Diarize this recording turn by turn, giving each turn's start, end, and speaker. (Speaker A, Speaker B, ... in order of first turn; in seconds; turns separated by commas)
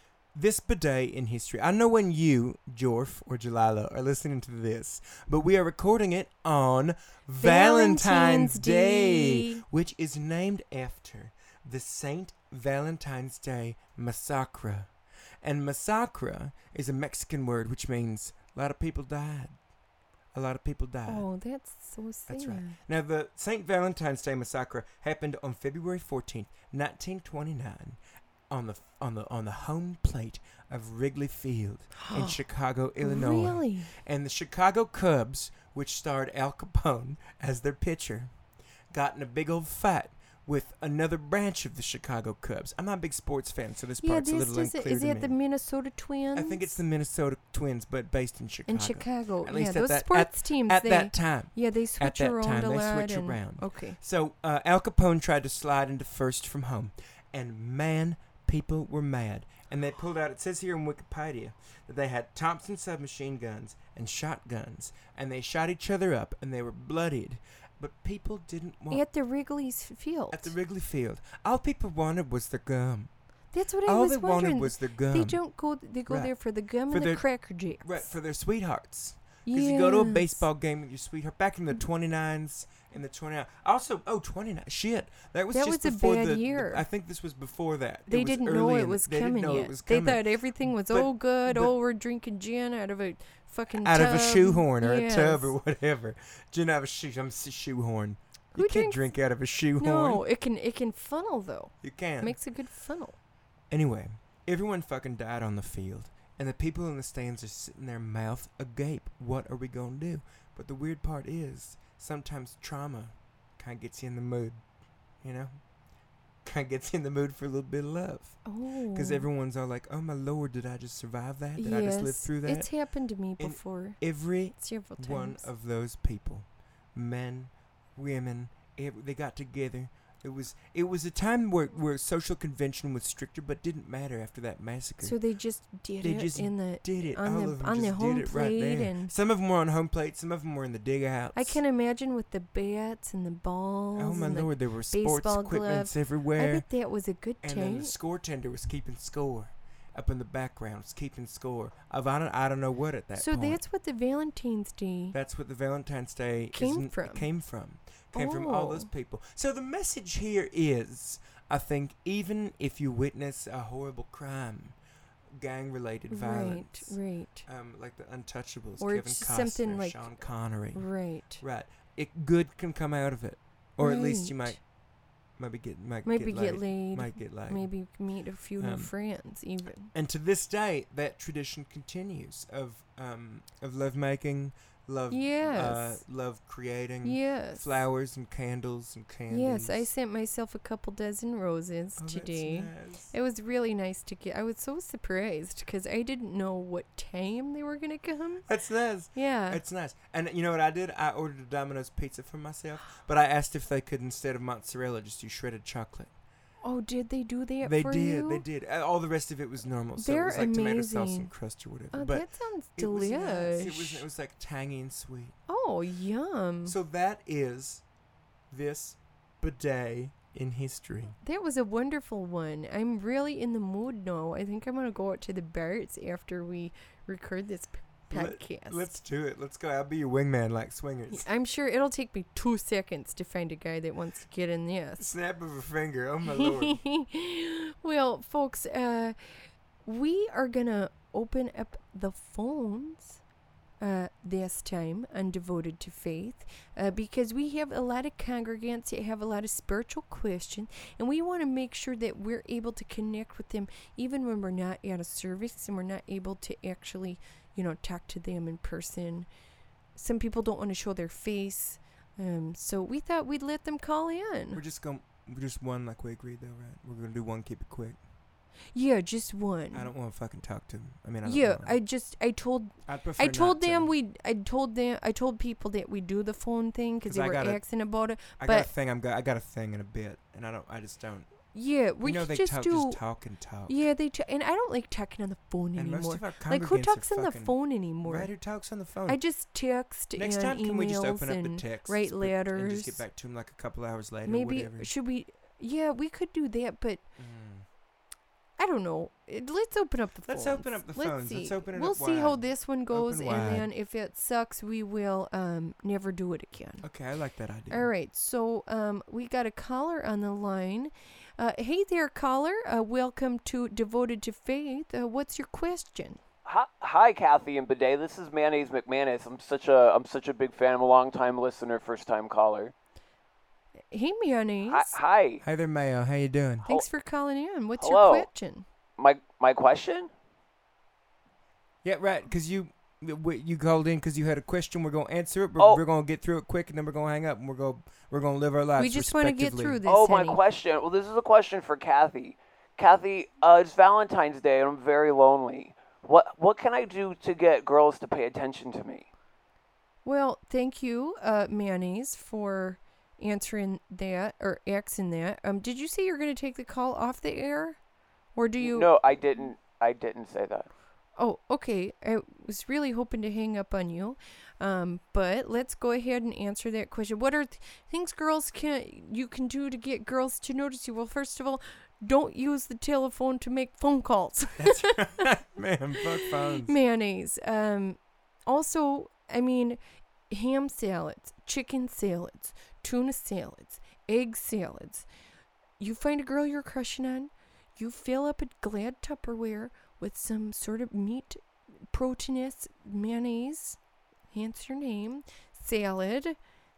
Speaker A: 0.3-14.9, Speaker B: 7.4-9.6, Speaker A: 15.4-19.5, Speaker A: 20.3-21.2, Speaker B: 21.1-22.8, Speaker A: 22.3-28.0, Speaker A: 28.5-38.3, Speaker B: 32.0-32.4, Speaker B: 33.0-33.9, Speaker A: 38.9-45.4, Speaker B: 44.0-46.7, Speaker A: 46.3-69.0, Speaker B: 48.7-54.0, Speaker B: 68.9-70.5, Speaker A: 70.3-73.1, Speaker B: 73.5-78.1, Speaker A: 73.8-75.4, Speaker A: 76.1-76.3, Speaker A: 76.9-77.2, Speaker A: 77.8-91.7, Speaker B: 79.5-80.4, Speaker B: 85.5-86.8, Speaker B: 88.1-95.5, Speaker A: 93.8-100.2, Speaker B: 98.5-99.1, Speaker B: 99.8-103.2, Speaker A: 101.8-102.4, Speaker A: 103.7-114.6, Speaker A: 115.2-115.6, Speaker A: 116.4-118.4, Speaker B: 118.5-119.3, Speaker A: 118.9-122.7, Speaker B: 121.6-124.0, Speaker A: 123.4-135.2, Speaker B: 124.5-125.4, Speaker B: 135.0-139.1, Speaker A: 136.0-141.6, Speaker B: 141.3-147.9, Speaker A: 143.9-146.7, Speaker A: 147.4-153.6, Speaker B: 153.2-155.2, Speaker A: 155.1-164.8, Speaker B: 156.5-157.2, Speaker B: 158.1-158.9, Speaker A: 165.3-170.9, Speaker B: 166.1-167.4, Speaker B: 168.8-170.1, Speaker B: 170.7-171.4, Speaker A: 171.4-174.6, Speaker B: 173.8-174.6, Speaker A: 175.4-177.7, Speaker B: 176.0-179.9, Speaker A: 178.6-178.9, Speaker A: 179.9-189.9, Speaker B: 185.1-186.0, Speaker B: 187.0-187.8, Speaker B: 189.3-198.4, Speaker A: 192.0-193.1, Speaker A: 198.5-206.1, Speaker B: 199.1-199.6, Speaker B: 206.6-208.4, Speaker A: 207.6-215.3, Speaker B: 210.0-211.3, Speaker B: 211.9-214.0, Speaker B: 215.5-216.7, Speaker A: 216.7-217.8, Speaker A: 218.5-221.2, Speaker B: 221.2-228.9, Speaker A: 228.1-231.2, Speaker B: 231.1-235.1, Speaker A: 235.0-236.8, Speaker B: 236.3-239.2, Speaker B: 239.8-243.2, Speaker B: 243.8-259.3, Speaker B: 259.9-264.6, Speaker A: 264.5-268.0, Speaker B: 268.7-269.9, Speaker A: 269.7-271.8, Speaker B: 271.2-278.7, Speaker A: 272.9-273.9, Speaker A: 277.1-277.6, Speaker A: 278.4-281.3, Speaker B: 281.5-283.0, Speaker A: 282.0-283.8, Speaker B: 283.7-288.3, Speaker A: 285.7-289.2, Speaker B: 289.1-293.0, Speaker A: 290.1-294.9, Speaker B: 294.2-297.0, Speaker A: 297.2-297.6, Speaker B: 298.6-306.9, Speaker A: 300.2-303.7, Speaker A: 306.8-307.9, Speaker B: 307.7-316.2, Speaker C: 316.4-322.7, Speaker B: 323.9-325.0, Speaker C: 324.7-325.4, Speaker A: 325.4-326.6, Speaker B: 326.6-328.6, Speaker C: 327.8-328.3, Speaker C: 329.0-330.1, Speaker A: 331.8-339.8, Speaker B: 338.8-340.4, Speaker C: 339.9-349.1, Speaker B: 350.0-357.8, Speaker B: 358.3-359.4, Speaker C: 358.6-360.7, Speaker B: 361.2-375.2, Speaker A: 374.6-376.7, Speaker B: 376.0-385.1, Speaker B: 385.8-391.4, Speaker B: 391.9-393.8, Speaker B: 394.3-396.4